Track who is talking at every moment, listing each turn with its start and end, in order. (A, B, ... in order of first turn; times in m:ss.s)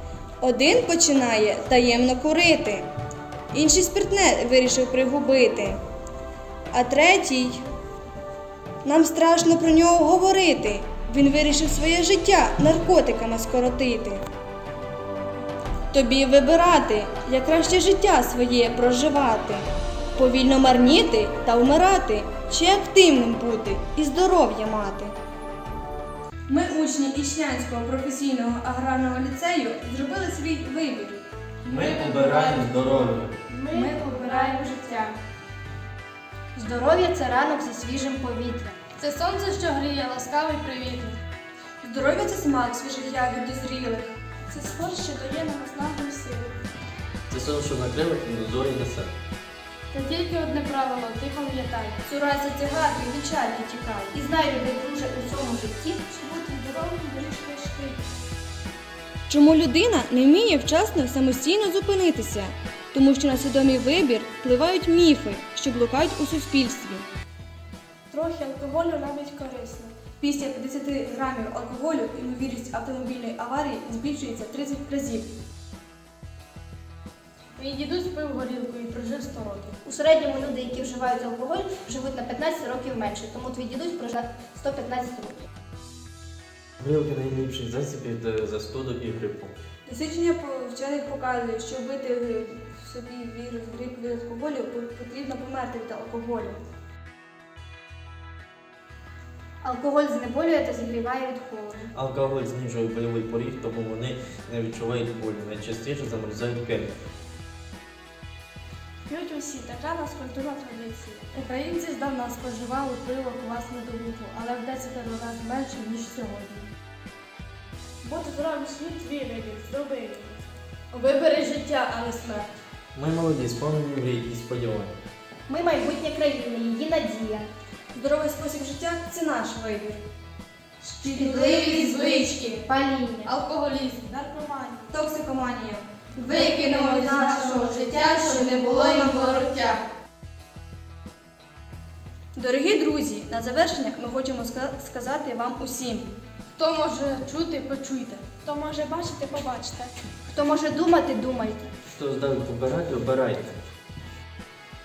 0:00.4-0:02.9 A
0:03.5-0:05.8 A
0:06.7-0:07.6 A
0:08.8-0:14.2 A
0:15.9-0:19.6 A
0:20.2-0:25.1 A
0:26.5-0:31.2 A
0:31.6-0:33.3 B
0:31.8-0:32.6 C
0:33.6-0:34.6 C
0:33.7-0:34.5 A
0:34.2-0:34.7 D
0:36.5-0:38.8 D
0:39.0-0:41.2 C
0:41.8-0:44.1 A
0:44.5-0:46.5 C
0:47.3-0:49.1 B
0:49.9-0:52.0 C
0:52.0-0:54.2 A
0:54.1-0:57.5 D
0:59.3-1:07.0 A
1:08.1-1:09.9 C
1:10.2-1:15.3 A
1:17.6-1:19.8 C
1:19.8-1:25.5 D
1:26.8-1:29.5 B
1:29.8-1:36.6 A
1:39.6-1:41.9 D
1:41.9-1:46.9 B
1:49.1-1:56.7 C
1:58.0-2:02.5 C
2:02.9-2:05.0 B
2:05.5-2:07.5 D
2:07.9-2:10.0 A
2:10.8-2:12.6 C
2:11.1-2:13.3 D
2:13.2-2:14.9 C
2:14.9-2:19.6 A
2:16.2-2:19.8 C
2:22.3-2:26.1 A
2:26.6-2:29.9 C
2:30.3-2:31.7 D
2:31.9-2:33.6 B